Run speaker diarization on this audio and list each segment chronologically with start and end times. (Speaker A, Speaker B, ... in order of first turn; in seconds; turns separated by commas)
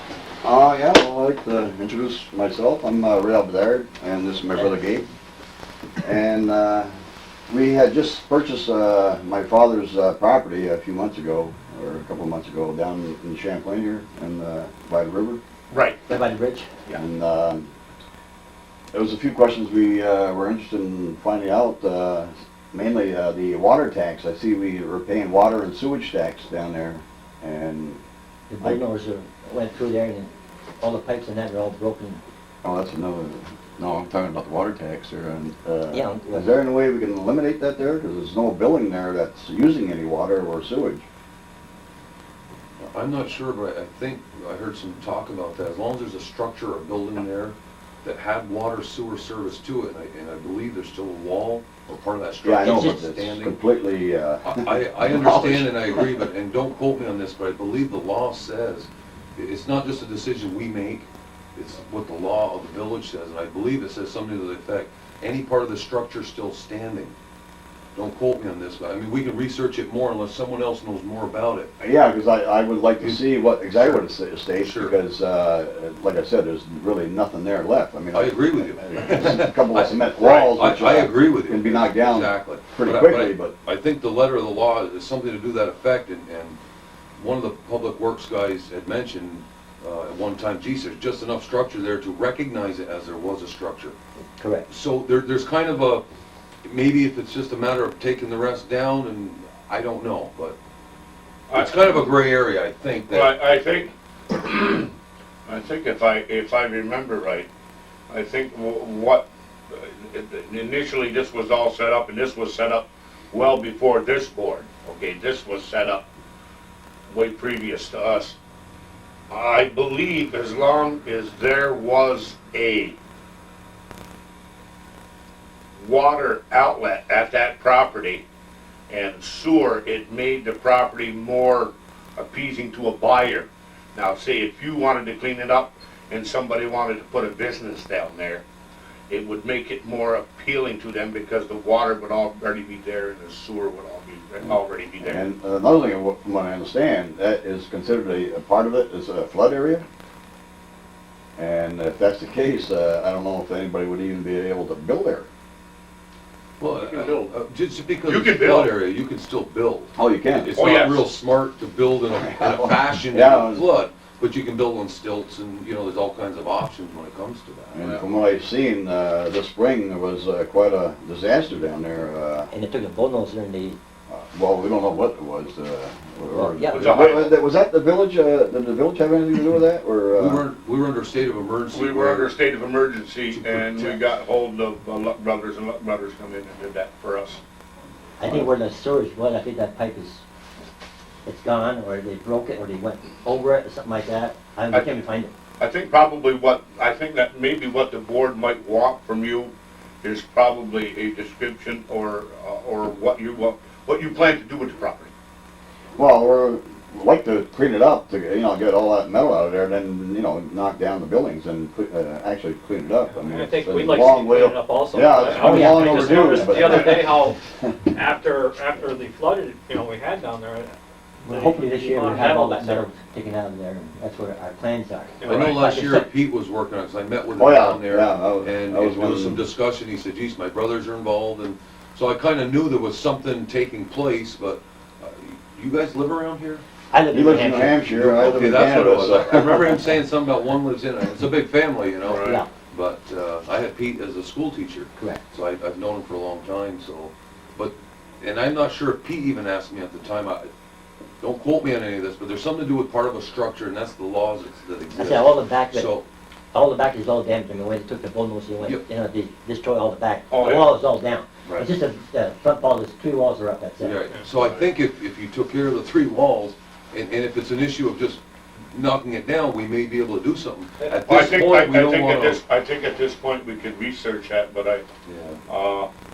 Speaker A: 0.4-5.1, Speaker A: 6.0-6.9, Speaker A: 7.5-15.4, Speaker B: 15.7-15.9, Speaker C: 16.1-16.7, Speaker A: 16.9-17.7, Speaker A: 18.9-28.0, Speaker C: 28.5-32.2, Speaker A: 32.6-41.0, Speaker C: 35.9-36.5, Speaker D: 42.9-53.5, Speaker A: 52.4-56.1, Speaker C: 52.6-53.0, Speaker D: 54.4-67.1, Speaker D: 67.9-71.7, Speaker A: 71.8-83.5, Speaker D: 73.0-74.0, Speaker D: 74.5-75.0, Speaker D: 78.1-86.6, Speaker D: 87.2-93.9, Speaker C: 94.4-94.7, Speaker D: 94.7-96.0, Speaker D: 96.6-100.5, Speaker B: 101.5-102.1, Speaker D: 101.5-103.4, Speaker B: 103.1-104.9, Speaker B: 105.5-107.5, Speaker B: 108.1-116.0, Speaker B: 117.1-118.3, Speaker B: 119.3-123.0, Speaker B: 125.8-128.2, Speaker B: 128.9-138.4, Speaker B: 139.1-145.2, Speaker A: 144.5-149.8, Speaker A: 151.3-155.3, Speaker D: 156.6-167.9, Speaker B: 156.7-157.3, Speaker B: 158.1-158.7, Speaker A: 160.0-160.6, Speaker B: 160.5-161.1, Speaker A: 162.3-163.6, Speaker A: 167.7-172.5, Speaker C: 172.5-173.8, Speaker A: 174.1-180.4, Speaker C: 176.3-177.0, Speaker B: 176.7-177.3, Speaker D: 180.1-182.3, Speaker B: 181.7-187.4, Speaker D: 183.3-184.0, Speaker C: 188.2-190.2, Speaker A: 188.2-188.5, Speaker C: 191.2-195.3, Speaker B: 194.7-195.0, Speaker B: 195.6-205.1, Speaker A: 205.9-217.7, Speaker E: 213.1-217.4, Speaker C: 215.2-216.8, Speaker E: 217.9-222.9, Speaker C: 221.2-226.1, Speaker E: 225.2-225.5, Speaker D: 225.2-236.6, Speaker A: 227.3-229.4, Speaker C: 236.9-237.8, Speaker A: 237.1-239.8, Speaker D: 237.8-250.5, Speaker B: 242.0-242.4, Speaker C: 242.2-242.5, Speaker D: 251.2-256.0, Speaker C: 254.9-255.9, Speaker C: 256.5-264.0, Speaker B: 260.3-260.7, Speaker D: 263.8-268.2, Speaker B: 264.4-264.6, Speaker D: 268.7-272.4, Speaker B: 271.1-274.8, Speaker D: 275.1-275.4, Speaker B: 275.5-275.9